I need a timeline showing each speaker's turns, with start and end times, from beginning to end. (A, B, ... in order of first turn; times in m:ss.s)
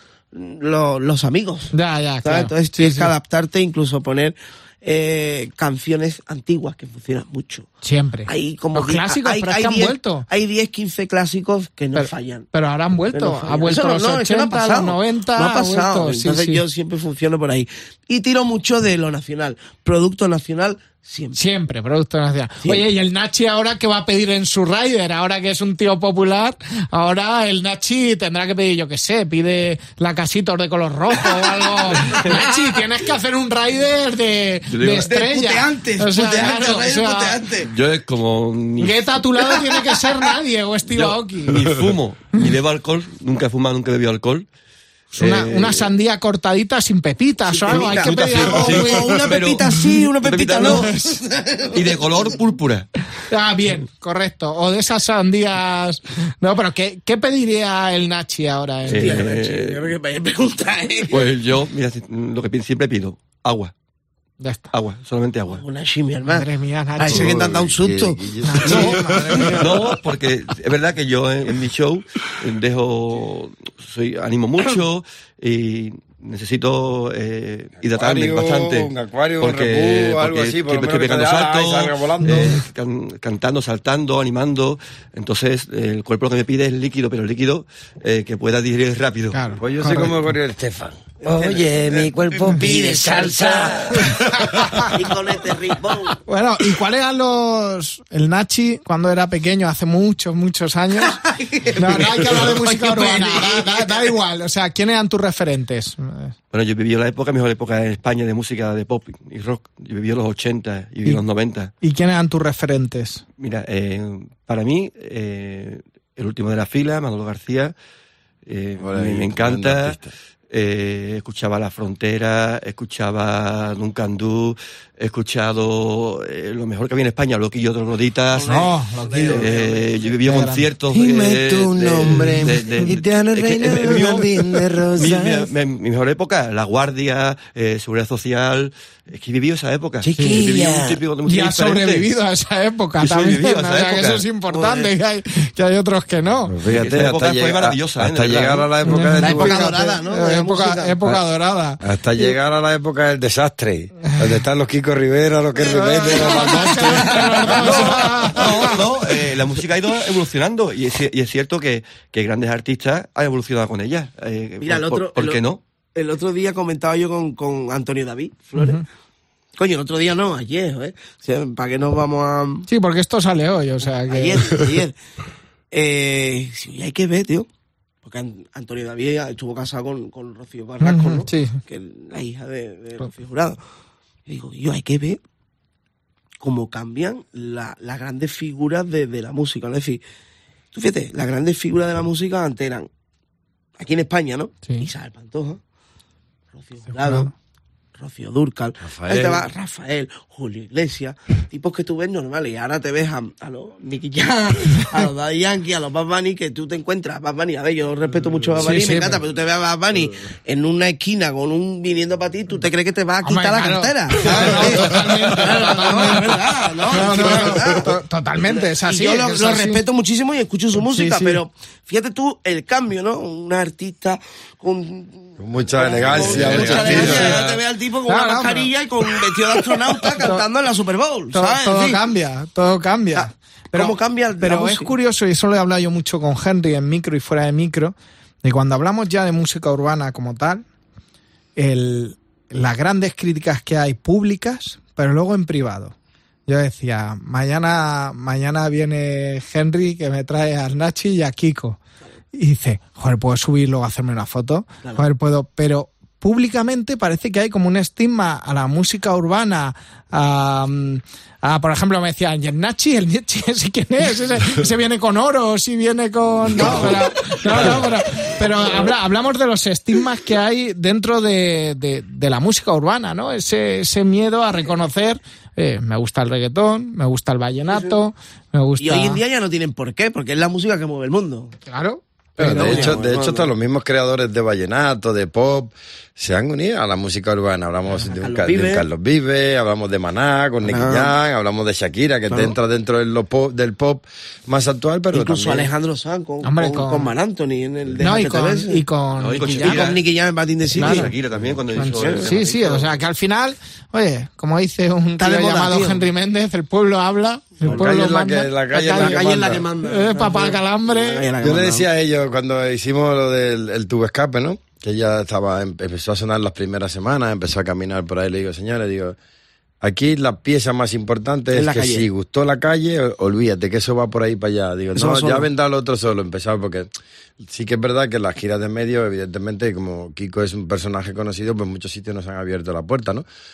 0:00.3-0:07.7 A
0:01.7-0:03.1 B
0:07.8-0:10.3 B
0:08.3-0:12.5 A
0:12.0-0:16.6 B
0:13.1-0:21.4 A
0:21.4-0:37.4 B
0:32.0-0:32.6 A
0:34.7-0:35.1 C
0:35.0-0:37.7 A
0:37.7-0:39.2 C
0:38.8-0:41.6 B
0:40.9-0:44.5 C
0:45.2-0:49.1 B
0:45.2-0:45.9 C
0:47.5-0:52.1 A
0:47.7-0:50.9 C
0:50.8-0:51.2 B
0:51.7-0:52.9 C
0:53.3-0:59.2 B
0:58.9-0:59.9 C
0:58.9-1:01.3 A
1:01.1-1:03.7 C
1:04.4-1:04.7 B
1:04.7-1:05.6 C
1:05.5-1:09.7 A
1:06.3-1:07.5 B
1:07.1-1:09.9 D
1:08.4-1:09.6 B
1:09.4-1:29.5 C
1:17.8-1:22.6 D
1:29.3-1:30.2 B
1:29.6-1:34.8 D
1:31.2-1:34.0 A
1:34.4-1:34.8 B
1:34.8-1:36.2 A
1:36.3-1:41.2 B
1:41.3-1:44.1 A
1:41.8-1:46.3 B
1:46.5-1:51.7 C
1:51.8-1:53.2 B
1:53.4-1:57.7 C
1:58.5-2:00.0 C
1:58.8-2:00.1 D
2:00.5-2:08.7 C
2:08.3-2:10.2 A
2:08.5-2:09.5 B
2:09.2-2:22.1 C
2:10.2-2:10.7 B
2:10.9-2:15.5 D
2:20.0-2:21.0 D
2:21.3-2:26.5 B
2:23.0-2:24.8 C
2:26.5-2:29.8 D
2:26.7-2:28.7 C
2:28.9-2:31.8 B
2:29.2-2:31.0 A
2:31.8-2:38.8 D
2:35.6-2:38.7 B
2:37.5-2:45.6 C
2:44.6-2:48.8 A
2:48.6-2:48.8 B
2:49.6-2:52.7 A
2:52.7-2:54.6 B
2:54.1-2:55.0 A
2:55.7-2:57.5 A
2:58.0-3:03.6 A
3:00.8-3:01.6 B
3:04.3-3:05.2 A
3:06.4-3:10.0 A
3:10.7-3:12.9 A
3:13.8-3:15.6 A
3:16.6-3:17.3 A
3:17.0-3:17.3 B
3:18.0-3:52.0 A
3:18.8-3:19.5 D
3:28.6-3:29.2 B
3:33.2-3:39.8 B
3:40.8-3:41.4 B
3:45.4-3:47.4 D
3:46.1-3:47.6 C
3:48.1-3:48.7 B
3:50.2-3:50.4 B
3:51.3-4:00.6 B
3:53.2-3:54.9 A
4:01.6-4:05.9 B
4:06.5-4:11.8 B
4:12.3-4:39.2 B
4:38.8-4:41.5 A
4:41.7-4:42.9 B
4:42.4-4:55.7 D
4:42.5-4:43.5 A
4:48.0-4:48.8 A
4:50.6-4:51.1 A
4:52.3-4:52.6 A
4:55.1-4:58.8 A
4:56.4-4:57.1 B
4:58.0-4:59.9 B
4:59.2-5:00.0 C
4:59.5-5:01.1 A
5:00.7-5:02.8 C
5:00.8-5:01.1 B
5:01.8-5:09.3 B
5:02.0-5:02.4 A
5:05.2-5:06.1 A
5:07.6-5:09.6 D
5:07.6-5:07.9 A
5:08.9-5:11.9 A
5:09.9-5:11.3 B
5:11.4-5:19.2 D
5:19.8-5:26.9 D
5:21.5-5:22.1 A
5:25.0-5:25.5 A
5:27.4-5:33.3 D